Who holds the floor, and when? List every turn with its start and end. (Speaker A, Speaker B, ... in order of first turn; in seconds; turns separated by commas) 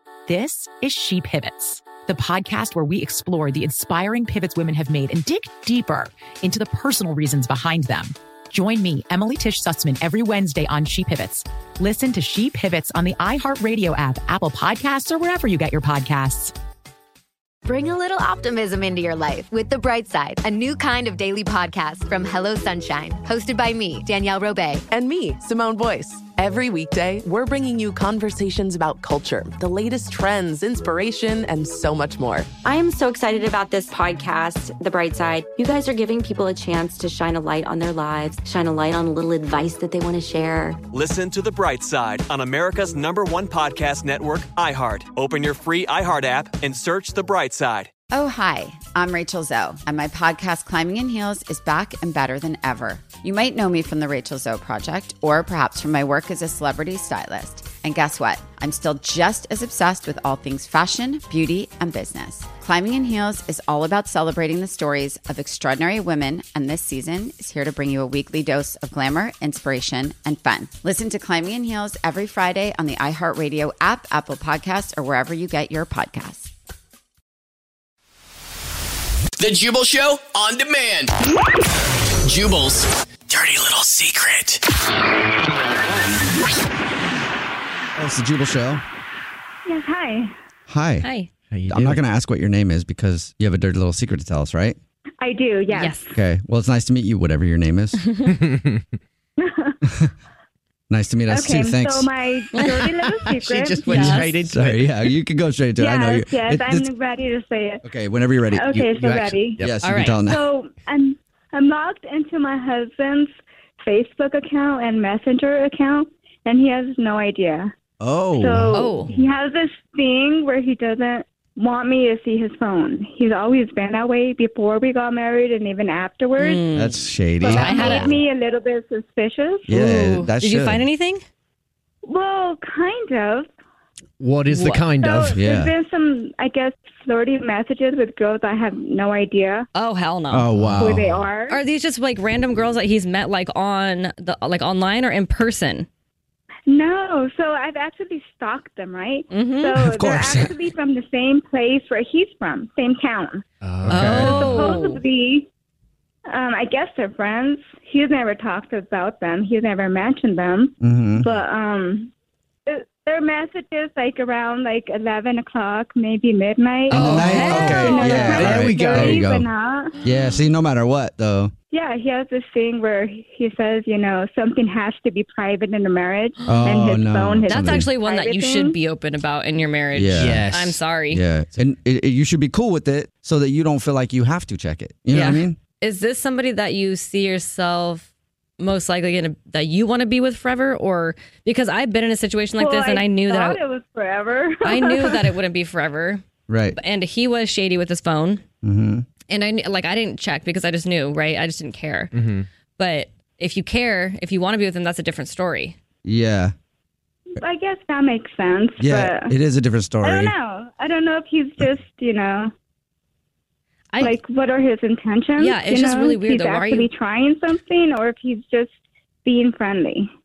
Speaker A: 0.3-16.5, Speaker B: 17.6-24.8, Speaker C: 24.9-32.5, Speaker D: 32.6-40.8, Speaker E: 40.9-47.9, Speaker F: 48.1-76.5, Speaker G: 79.4-81.1, Speaker G: 82.2-84.6, Speaker H: 88.0-88.8, Speaker I: 89.7-90.3, Speaker H: 90.7-91.1, Speaker J: 91.0-91.3, Speaker K: 91.5-92.0, Speaker H: 91.7-94.8, Speaker I: 95.2-96.0, Speaker J: 95.7-96.1, Speaker H: 96.1-98.1, Speaker K: 98.5-98.8, Speaker I: 99.4-99.8, Speaker H: 100.9-102.5, Speaker I: 101.3-104.0, Speaker K: 102.6-104.9, Speaker J: 103.8-104.3, Speaker H: 103.9-106.9, Speaker I: 105.8-107.8, Speaker H: 107.8-110.5, Speaker I: 108.5-109.6, Speaker K: 108.8-109.8, Speaker J: 109.8-110.2, Speaker I: 110.2-117.7, Speaker H: 118.0-119.0, Speaker I: 118.4-126.6, Speaker J: 118.7-119.1, Speaker J: 126.4-128.2, Speaker H: 126.7-128.2, Speaker I: 127.4-129.7, Speaker H: 129.7-130.8, Speaker J: 129.7-131.2, Speaker I: 132.0-133.5, Speaker K: 134.2-135.5, Speaker J: 134.5-134.9, Speaker I: 135.0-139.7, Speaker H: 135.3-135.7, Speaker J: 139.8-140.5, Speaker H: 140.3-141.2, Speaker K: 140.6-141.3, Speaker I: 140.8-141.6, Speaker J: 141.4-145.9, Speaker I: 146.7-153.4, Speaker J: 149.3-149.8, Speaker H: 149.8-150.6, Speaker K: 153.6-154.8, Speaker H: 153.8-154.6, Speaker J: 153.8-155.0, Speaker I: 154.2-155.5, Speaker I: 156.3-162.1, Speaker H: 160.8-161.3, Speaker I: 162.7-170.0, Speaker K: 166.9-167.9, Speaker H: 166.9-169.5, Speaker J: 167.0-168.7, Speaker K: 168.4-169.4, Speaker H: 170.0-171.5, Speaker I: 171.7-178.8, Speaker H: 176.4-177.9, Speaker J: 177.5-181.2, Speaker H: 179.9-180.5, Speaker K: 180.2-180.8, Speaker H: 181.1-185.6, Speaker J: 185.1-188.1, Speaker J: 188.6-193.6, Speaker I: 192.6-195.3, Speaker J: 194.6-198.4, Speaker H: 196.5-196.8, Speaker H: 198.6-199.1, Speaker J: 199.3-202.1, Speaker K: 202.1-202.5, Speaker J: 202.8-205.8, Speaker H: 206.1-206.5, Speaker I: 207.4-209.3, Speaker H: 208.8-210.3, Speaker I: 210.0-212.5, Speaker J: 213.9-214.2, Speaker I: 214.0-218.7, Speaker J: 215.4-216.9, Speaker I: 219.2-220.1